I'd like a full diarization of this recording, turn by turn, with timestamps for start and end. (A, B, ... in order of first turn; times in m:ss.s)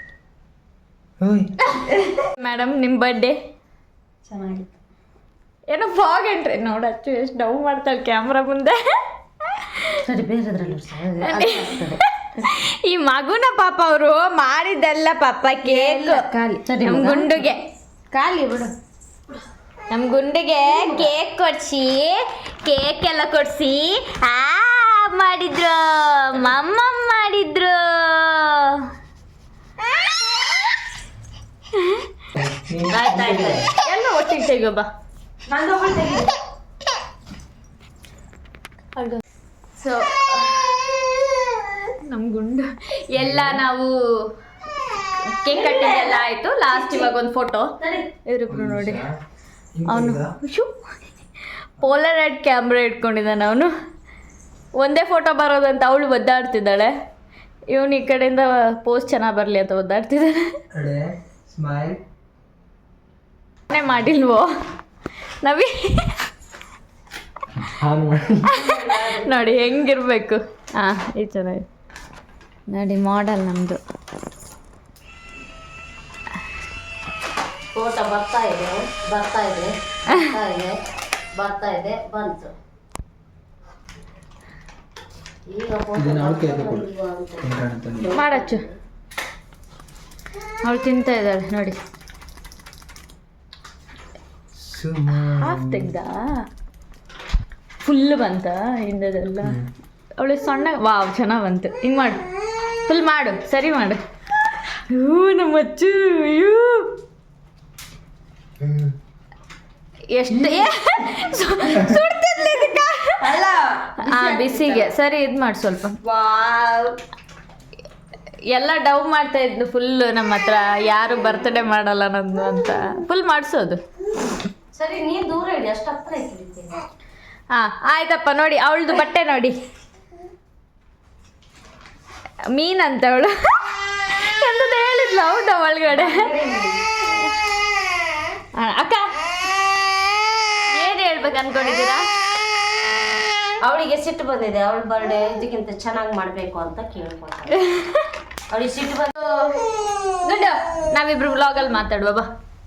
0:01.2-0:01.5 A
0:01.8-0:03.4 B
0:04.3-0:04.7 C
0:05.7-0:08.8 B
0:09.4-0:10.1 B
0:10.0-0:12.0 D
0:11.2-0:16.3 B
0:15.6-0:16.5 C
0:16.4-0:17.3 D
0:16.8-0:17.7 B
0:18.1-0:18.7 C
0:19.9-0:28.8 B
0:20.8-0:21.0 D
0:32.4-0:33.7 A
0:33.0-0:34.9 B
0:35.5-0:36.3 C
0:39.8-0:40.7 B
0:42.1-0:43.9 B
0:43.2-0:43.6 A
0:45.4-0:47.7 B
0:45.5-0:46.2 D
0:46.7-0:47.1 D
0:47.8-0:48.1 D
0:48.3-0:49.1 B
0:48.5-0:49.1 A
0:49.8-0:50.3 A
0:49.9-0:51.1 B
0:51.8-0:53.7 B
0:54.8-0:56.9 B
0:57.7-1:00.6 B
1:00.7-1:02.0 A
1:03.7-1:04.5 B
1:05.4-1:06.2 B
1:07.7-1:08.5 A
1:08.4-1:11.7 B
1:08.7-1:09.1 C
1:09.0-1:09.3 D
1:12.7-1:13.8 B
1:17.7-1:20.8 D
1:20.1-1:20.4 B
1:21.3-1:22.5 D
1:25.5-1:28.8 D
1:26.0-1:26.9 A
1:27.4-1:28.1 A
1:28.0-1:28.7 B
1:30.6-1:31.8 B
1:34.6-1:35.9 A
1:35.4-1:36.2 B
1:37.8-1:39.6 B
1:39.4-1:39.7 A
1:40.2-1:42.2 B
1:42.8-1:44.0 B
1:44.9-1:46.9 B
1:50.1-1:53.4 B
1:53.2-1:54.9 C
1:54.0-1:56.0 B
1:56.0-1:56.9 C
1:58.5-2:03.8 B
2:04.7-2:06.8 D
2:07.5-2:09.6 B
2:12.5-2:16.3 B
2:16.0-2:16.8 C
2:18.6-2:19.1 B
2:20.7-2:22.1 B
2:23.6-2:27.6 D
2:27.6-2:28.1 B
2:28.5-2:29.2 D
2:30.2-2:32.3 B